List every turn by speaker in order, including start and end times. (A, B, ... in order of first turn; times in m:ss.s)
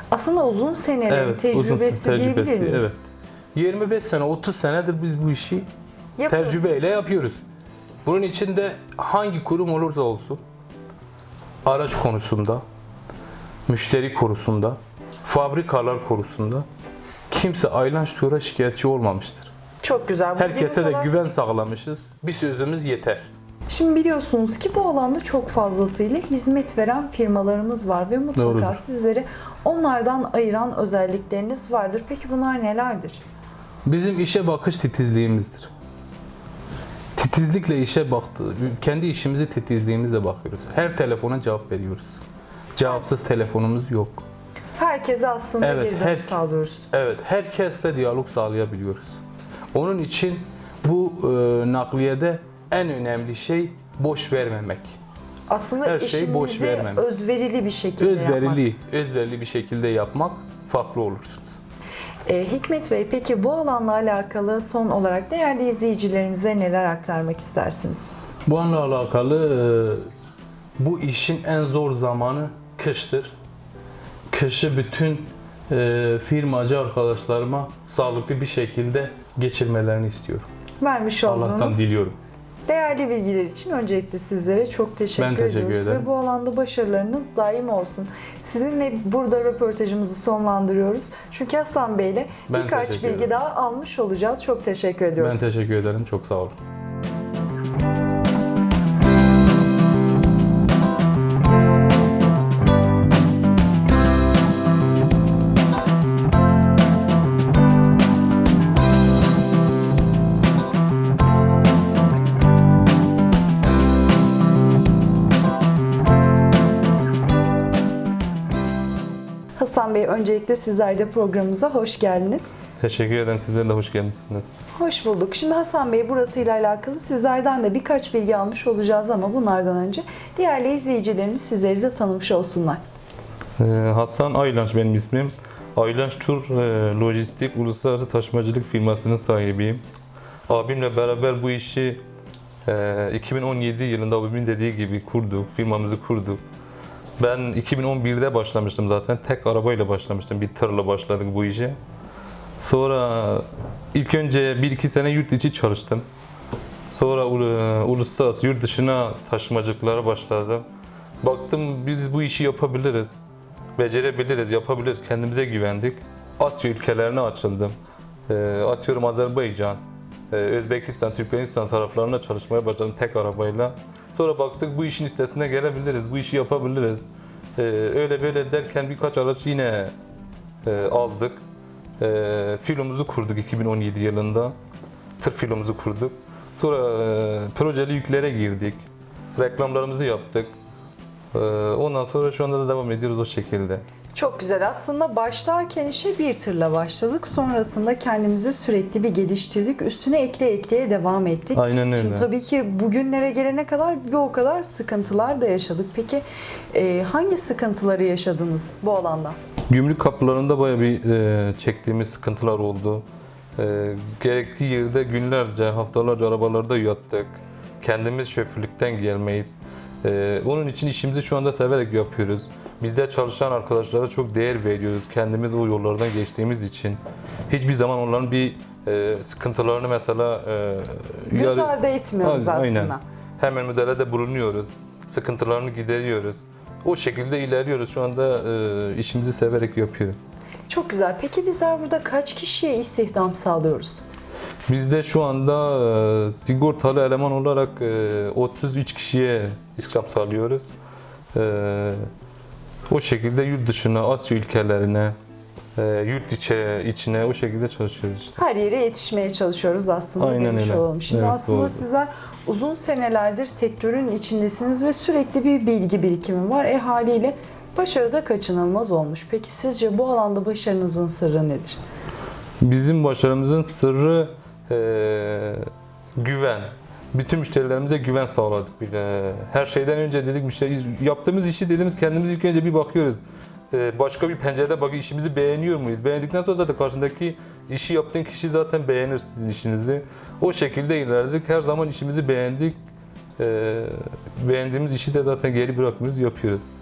0:00.1-0:02.9 A
0:01.1-0:03.0 B
0:03.5-0:05.7 B
0:06.2-0:06.8 A
0:06.3-0:07.4 B
0:08.0-0:10.4 B
0:11.6-0:12.6 B
0:13.7-0:16.6 B
0:17.3-0:19.5 B
0:19.8-0:21.1 A
0:20.4-0:23.3 B
0:23.7-0:33.2 A
0:28.4-0:28.8 B
0:33.8-0:35.7 B
0:37.1-0:42.2 B
0:42.7-0:44.2 B
0:44.8-0:46.9 A
0:45.6-0:46.4 B
0:46.9-0:49.2 B
0:49.7-0:55.0 B
0:55.5-0:58.6 A
0:55.8-0:57.0 B
0:58.0-1:01.5 B
1:02.3-1:08.1 A
1:08.4-1:10.0 B
1:10.8-1:13.3 B
1:14.3-1:20.5 B
1:20.8-1:21.8 A
1:21.2-1:22.2 B
1:22.6-1:35.4 A
1:25.2-1:26.1 B
1:32.5-1:33.3 B
1:35.2-1:36.6 B
1:59.6-2:02.5 A
2:02.8-2:04.5 C
2:04.8-2:12.8 A
2:13.6-2:19.8 C
2:20.5-2:22.0 C
2:22.6-2:26.4 C
2:27.2-2:31.8 C
2:32.6-2:36.0 C
2:36.9-2:40.6 C
2:41.2-2:43.2 C
2:43.8-2:47.7 C
2:48.3-2:59.9 C
3:00.6-3:01.4 C
3:02.0-3:04.5 C
3:05.2-3:08.8 C
3:09.4-3:10.5 C
3:11.3-3:13.8 C
3:14.1-3:29.4 A
3:21.5-3:22.3 C
3:29.7-3:33.0 C
3:33.6-4:00.2 C
3:51.3-3:53.0 A
4:00.7-4:04.0 A
4:04.7-4:10.7 C
4:11.3-4:12.1 C
4:12.9-4:15.1 C
4:15.8-4:18.4 C
4:18.4-4:31.8 A
4:20.2-4:21.8 C
4:32.6-4:35.6 C
4:36.2-4:52.8 C
4:53.4-4:56.7 C